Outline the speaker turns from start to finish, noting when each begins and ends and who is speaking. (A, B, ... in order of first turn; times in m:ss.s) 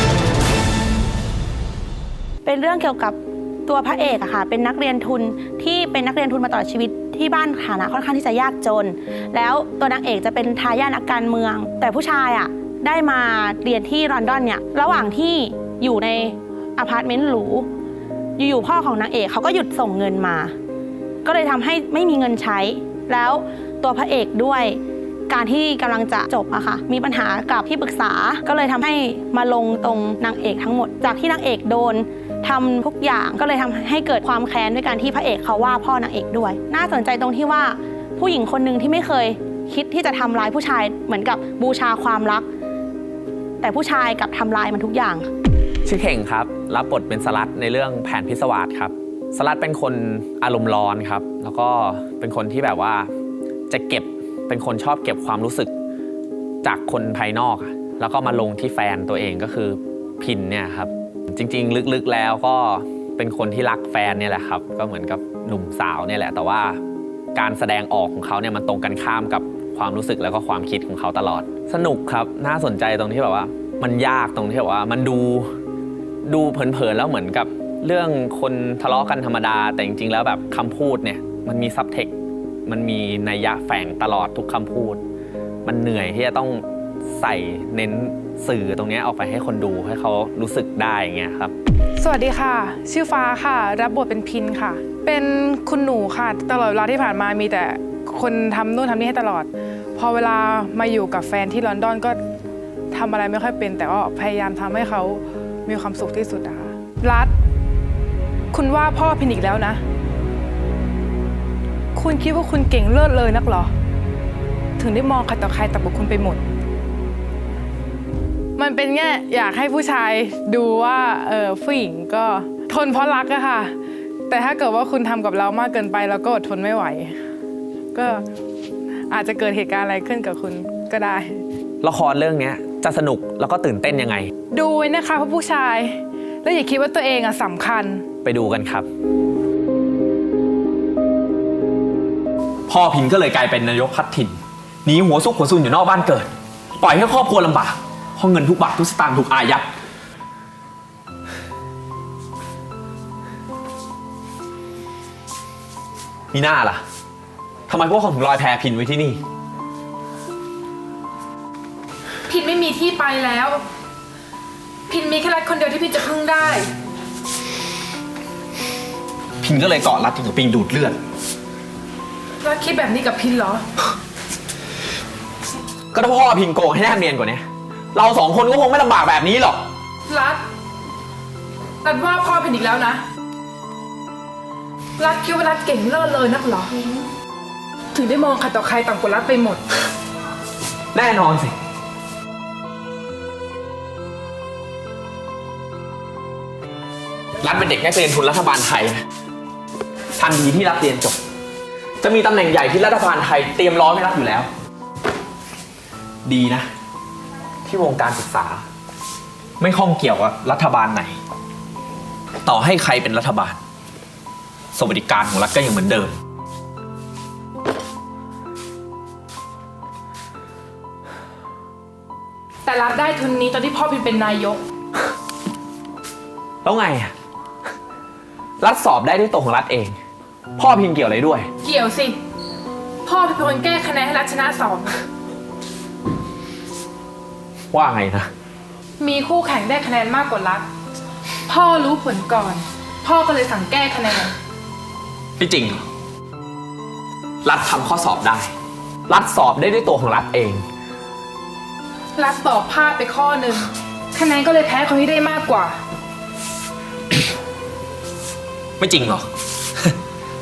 0:02.4-0:17.7 A
0:18.4-0:20.5 A
0:21.2-0:42.5 A
0:43.6-0:45.3 A
0:45.8-0:53.1 B
0:53.7-0:55.7 B
0:56.6-1:06.8 B
1:07.4-1:15.5 B
1:16.2-1:22.2 B
1:22.7-1:25.0 B
1:25.6-1:31.5 B
1:32.0-1:42.2 C
1:42.9-1:47.3 C
1:48.5-1:49.8 C
1:52.0-1:53.7 C
1:54.8-1:56.4 C
1:58.6-2:03.7 C
2:04.3-2:07.1 C
2:07.9-2:08.2 C
2:09.1-2:11.4 C
2:11.8-2:14.3 B
2:14.5-2:18.0 C
2:18.2-2:18.9 B
2:22.7-2:29.7 B
2:36.3-2:36.8 B
2:37.7-2:39.2 B
2:42.3-2:43.6 C
2:44.9-2:46.7 C
2:49.4-2:51.0 B
2:52.4-2:53.7 C
2:55.9-2:59.7 B
3:00.1-3:00.4 C
3:01.8-3:03.0 C
3:05.0-3:07.1 C
3:07.9-3:09.6 C
3:10.9-3:11.5 B
3:17.4-3:19.0 B
3:20.2-3:21.2 B
3:22.0-3:24.5 B
3:26.2-3:26.7 B
3:27.6-3:28.6 B
3:29.6-3:31.2 B
3:32.4-3:33.6 B
3:34.7-3:36.2 B
3:42.6-3:44.6 C
3:46.6-3:47.1 B
3:48.6-3:50.0 B
3:50.6-3:51.5 B
3:51.6-3:52.2 C
3:53.1-3:55.0 C
3:57.7-3:58.3 B
3:59.0-4:00.7 C
4:01.5-4:04.4 C
4:05.4-4:05.8 B
4:07.4-4:08.5 B
4:09.1-4:10.6 B
4:12.2-4:15.8 C
4:18.8-4:19.2 B